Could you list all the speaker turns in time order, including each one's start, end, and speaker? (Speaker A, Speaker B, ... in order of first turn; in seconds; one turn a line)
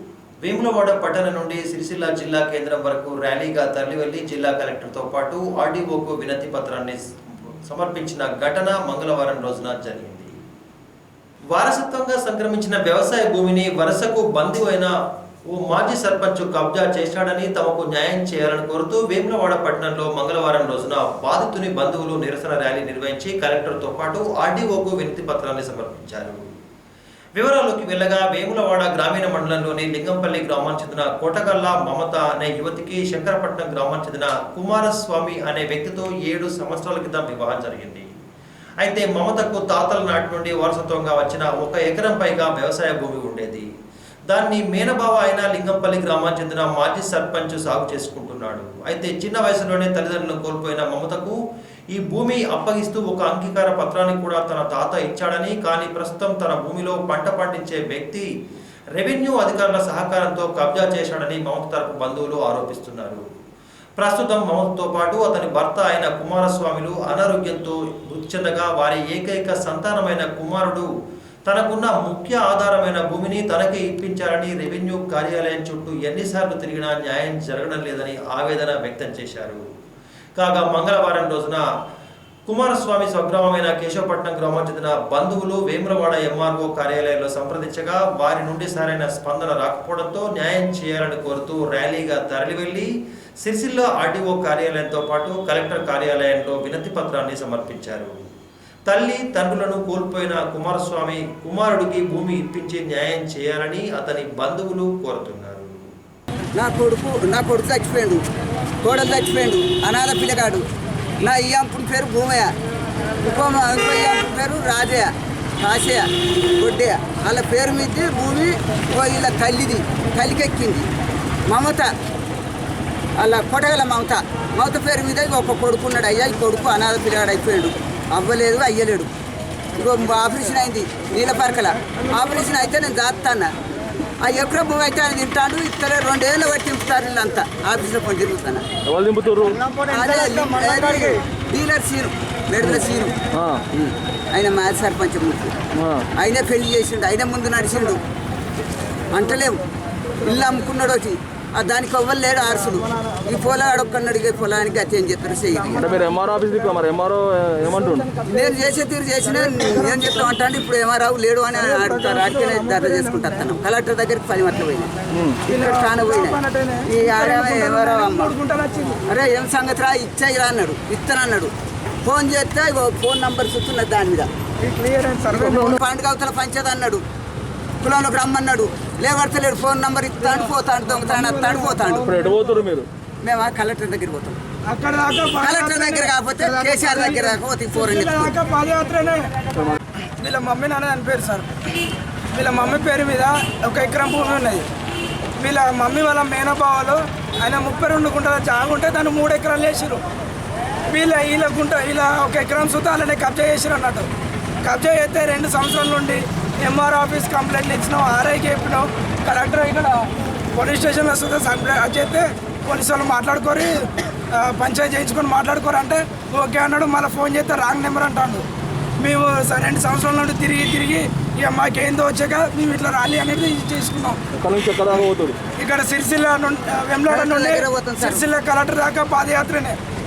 Speaker A: 0.4-10.3
Speaker A: 11.5-14.9
Speaker A: 15.5-26.4
Speaker A: 27.4-38.1
Speaker A: 38.8-43.7
Speaker A: 44.3-51.4
Speaker A: 51.9-58.3
Speaker A: 59.0-63.2
Speaker A: 64.0-70.9
Speaker A: 71.5-79.7
Speaker A: 80.4-81.6
Speaker A: 82.5-92.9
Speaker A: 93.4-98.1
Speaker A: 98.9-105.8
Speaker B: 106.6-108.2
Speaker B: 108.8-110.6
Speaker B: 111.2-112.5
Speaker B: 113.2-120.9
Speaker B: 121.5-121.9
Speaker B: 123.2-129.1
Speaker B: 129.8-133.5
Speaker B: 134.2-138.7
Speaker C: 138.8-139.7
Speaker B: 139.8-143.2
Speaker C: 142.6-143.7
Speaker B: 143.7-145.6
Speaker C: 145.8-146.1
Speaker B: 146.2-148.0
Speaker B: 149.1-149.6
Speaker B: 150.2-155.9
Speaker C: 155.8-158.1
Speaker D: 158.1-158.4
Speaker B: 158.2-164.9
Speaker D: 159.2-160.3
Speaker D: 161.5-163.5
Speaker C: 165.1-165.5
Speaker D: 165.5-169.0
Speaker B: 165.5-168.3
Speaker B: 169.1-171.5
Speaker B: 172.0-174.3
Speaker D: 174.6-175.8
Speaker B: 175.3-177.0
Speaker B: 177.8-182.1
Speaker D: 180.2-182.7
Speaker C: 182.0-182.9
Speaker B: 183.2-184.4
Speaker D: 184.7-189.3
Speaker B: 185.4-188.3
Speaker D: 190.2-191.5
Speaker D: 192.3-194.7
Speaker D: 195.4-200.0
Speaker D: 200.9-204.1
Speaker D: 204.6-218.4
Speaker D: 219.0-224.2
Speaker C: 224.3-225.4
Speaker D: 225.5-229.8
Speaker B: 227.1-228.2